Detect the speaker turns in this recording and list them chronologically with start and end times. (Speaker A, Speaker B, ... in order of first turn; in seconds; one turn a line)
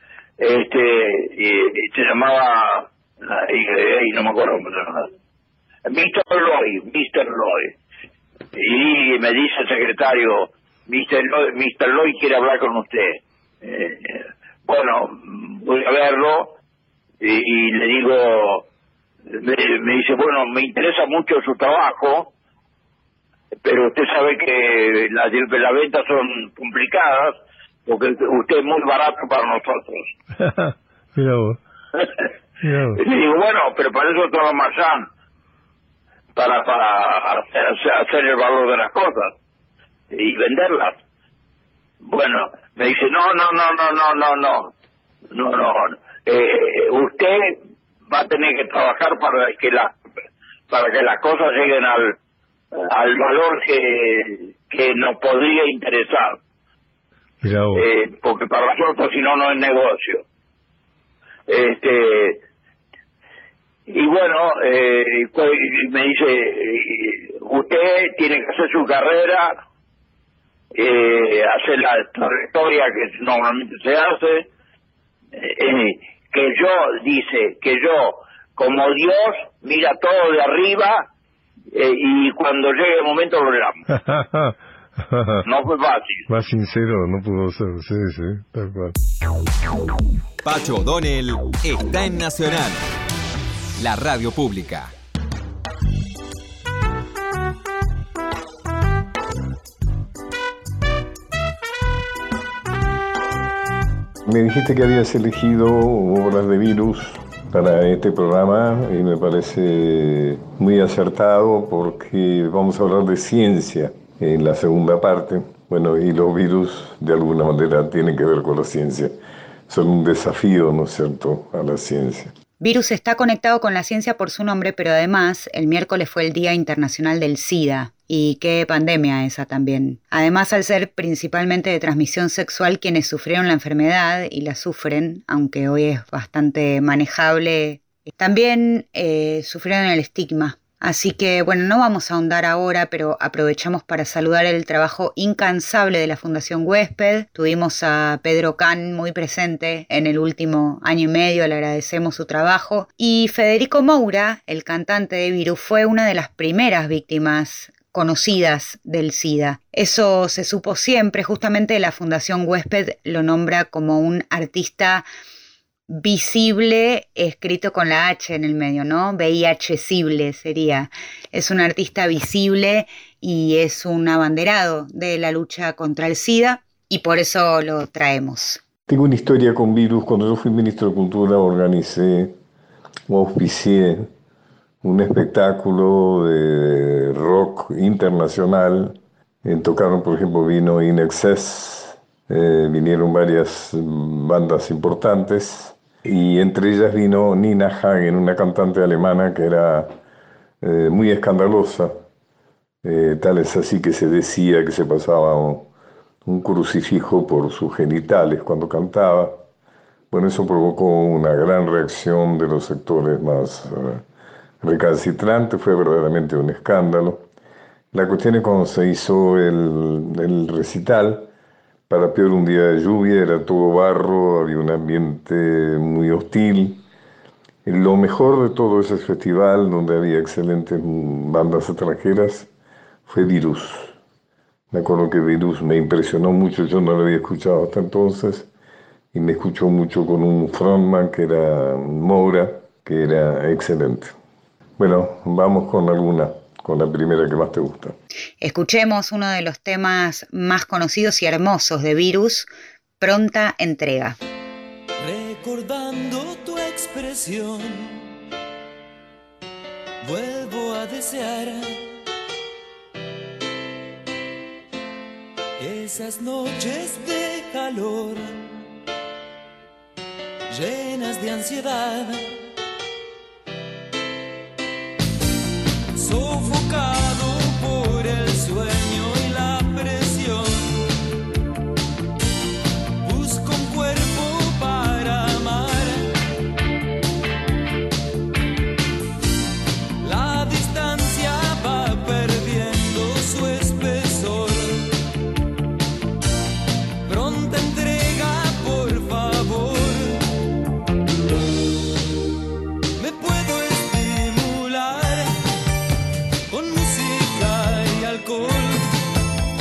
Speaker A: 0.4-5.1
Speaker A: 5.8-7.7
Speaker A: 8.5-16.6
Speaker A: 17.2-18.7
Speaker A: 19.3-22.3
Speaker A: 23.6-30.1
Speaker B: 30.4-31.6
Speaker B: 32.6-33.0
Speaker A: 33.0-35.1
Speaker A: 36.4-39.3
Speaker A: 40.1-41.0
Speaker A: 42.0-44.7
Speaker A: 45.3-49.9
Speaker A: 50.7-52.1
Speaker A: 52.7-56.4
Speaker B: 57.4-57.9
Speaker A: 57.7-60.2
Speaker A: 61.5-62.4
Speaker A: 63.9-69.5
Speaker A: 70.7-74.5
Speaker A: 75.3-81.1
Speaker A: 81.7-83.8
Speaker B: 83.9-84.5
Speaker B: 85.1-85.4
Speaker A: 85.4-86.2
Speaker B: 86.3-89.0
Speaker C: 90.4-92.9
Speaker C: 93.8-94.9
Speaker B: 104.2-119.1
Speaker B: 119.7-122.3
Speaker D: 122.6-165.1
Speaker D: 165.9-178.6
Speaker B: 178.9-182.3
Speaker B: 183.1-184.1
Speaker B: 184.8-199.9
Speaker B: 200.6-201.9
Speaker B: 202.8-205.7
Speaker B: 206.2-209.4
Speaker B: 210.1-214.1
Speaker B: 214.6-217.3
Speaker B: 217.9-221.3
Speaker B: 221.9-226.8
Speaker B: 227.6-232.5
Speaker B: 233.1-233.9
Speaker B: 234.7-238.5
Speaker B: 239.1-244.2
Speaker B: 244.8-248.0
Speaker D: 248.4-254.2
Speaker E: 255.0-258.1
Speaker E: 260.0-261.9
Speaker E: 265.6-268.6
Speaker E: 270.5-272.3
Speaker E: 275.9-280.9
Speaker E: 283.0-286.2
Speaker E: 290.0-294.9
Speaker E: 297.0-300.3
Speaker E: 303.0-305.4
Speaker E: 306.5-309.0